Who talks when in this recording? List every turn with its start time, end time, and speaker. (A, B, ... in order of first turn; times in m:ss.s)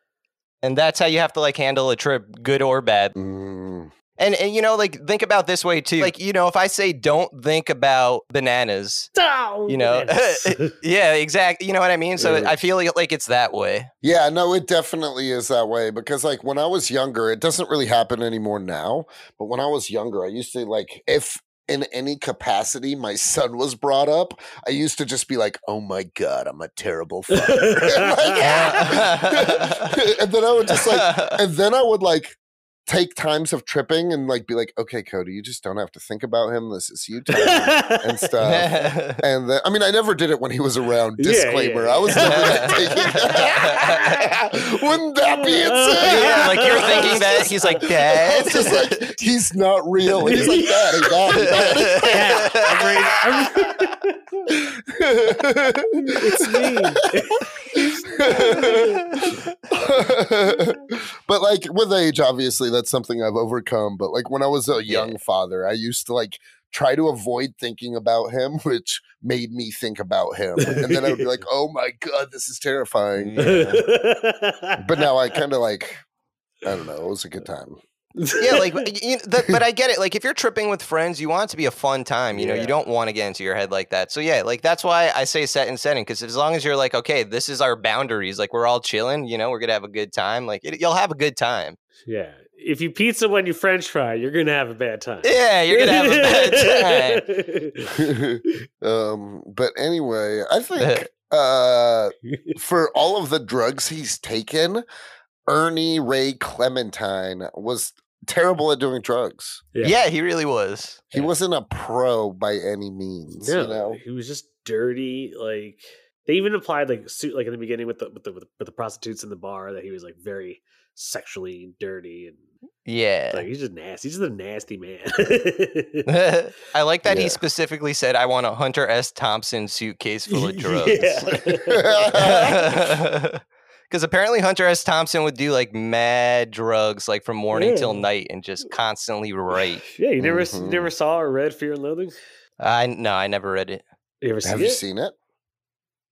0:00.6-0:03.1 A
0:03.1-0:03.9 B
0:04.2-0:09.1 A
0:09.1-0:10.7 C
0:09.7-0:13.9 A
0:12.2-0:12.5 C
0:12.2-0:12.5 B
0:14.0-0:53.2 B
0:27.3-0:28.9 C
0:28.4-0:30.0 A
0:30.7-0:31.4 A
0:37.3-0:38.3 C
0:38.4-0:39.2 A
0:41.2-0:43.9 C
0:42.1-0:44.3 A
0:45.2-0:47.9 C
0:46.0-0:49.1 A
0:50.2-0:54.5 C
0:50.2-0:50.6 A
0:51.3-0:52.9 A
0:54.5-1:13.4 B
0:56.0-0:59.4 C
0:58.7-0:59.6 A
1:04.9-1:05.2 A
1:10.6-1:11.3 C
1:13.2-1:13.8 A
1:13.4-1:14.8 C
1:14.8-1:16.0 B
1:16.6-1:17.8 B
1:18.2-1:18.8 C
1:18.4-1:31.8 A
1:22.3-1:22.8 C
1:32.0-1:38.0 C
1:35.2-1:37.2 A
1:37.9-1:44.8 B
1:40.8-1:41.0 A
1:42.3-1:42.6 C
1:45.5-1:49.6 B
1:49.7-1:50.0 C
1:49.8-1:51.1 A
1:51.1-1:54.0 B
1:53.3-2:02.4 C
2:02.8-2:03.5 A
2:03.3-2:06.1 C
2:06.0-2:11.4 A
2:07.0-2:07.4 B
2:10.3-2:12.6 C
2:11.7-2:12.7 B
2:12.1-2:19.8 A
2:17.5-2:18.0 C
2:19.5-2:22.1 C
2:20.2-2:20.9 B
2:22.6-2:23.8 A
2:24.2-2:24.8 C
2:24.4-2:25.1 B